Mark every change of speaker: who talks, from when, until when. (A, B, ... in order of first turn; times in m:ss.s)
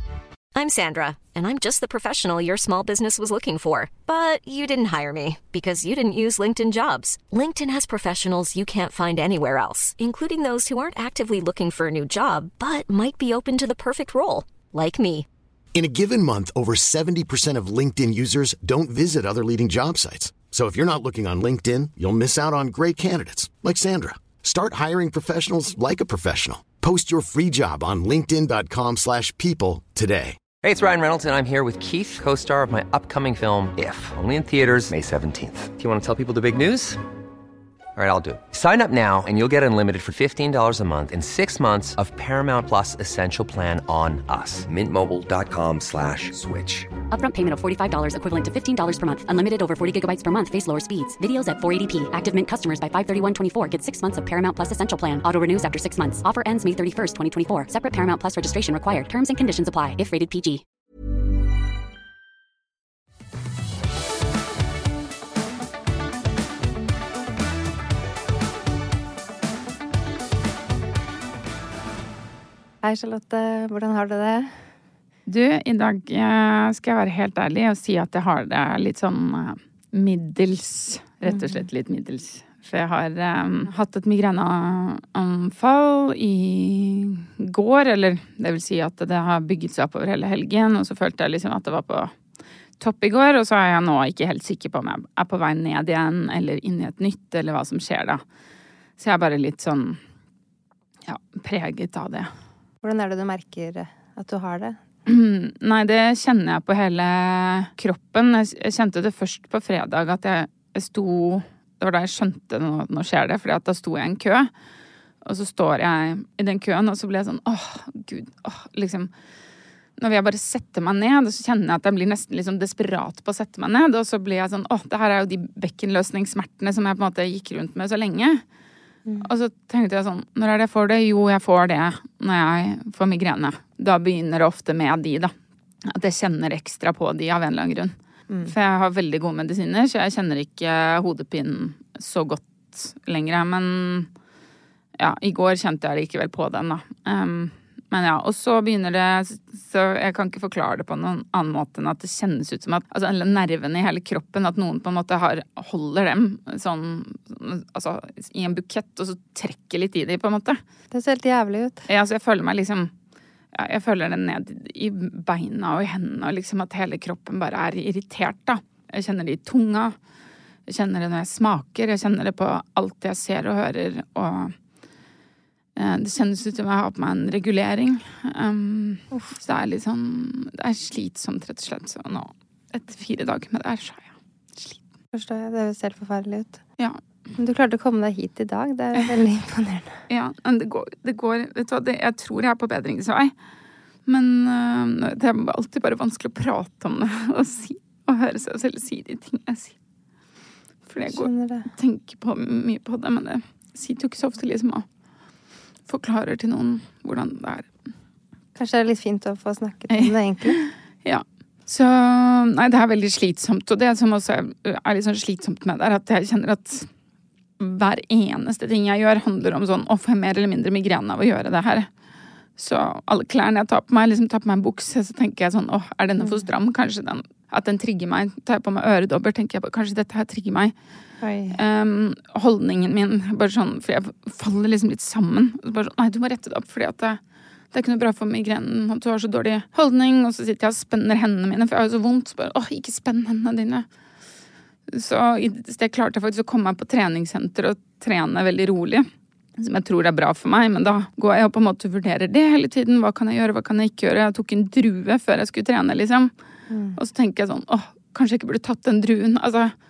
0:00.6-0:15.3 A
0:15.8-0:30.4 B
0:30.6-0:37.0 C
0:38.0-0:46.9 C
0:47.1-1:00.6 D
1:12.8-1:14.6 E
1:15.3-1:32.1 F
1:21.3-1:21.7 E
1:32.8-1:38.2 F
1:39.0-1:40.0 F
1:41.1-1:42.3 F
1:42.8-1:44.8 E
1:45.1-1:54.5 F
1:55.2-1:59.1 F
2:00.0-2:08.4 F
2:09.2-2:15.3 F
2:15.9-2:24.1 F
2:18.3-2:18.6 E
2:25.0-2:40.6 F
2:40.9-2:41.8 E
2:41.9-2:42.9 F
2:43.6-2:50.0 F
2:50.7-2:54.6 F
2:55.8-3:04.8 F
3:05.1-3:06.6 E
3:07.4-3:10.0 E
3:10.1-3:13.3 F
3:14.1-3:19.8 F
3:20.9-3:24.9 F
3:21.1-3:21.7 E
3:25.9-3:27.7 F
3:28.6-3:30.6 E
3:29.9-3:36.9 F
3:37.6-3:41.9 F
3:42.6-3:50.7 F
3:51.2-3:51.6 E
3:51.5-3:57.2 F
3:57.7-4:03.9 F
4:04.9-4:16.3 F
4:16.7-4:17.0 E
4:17.0-4:19.7 F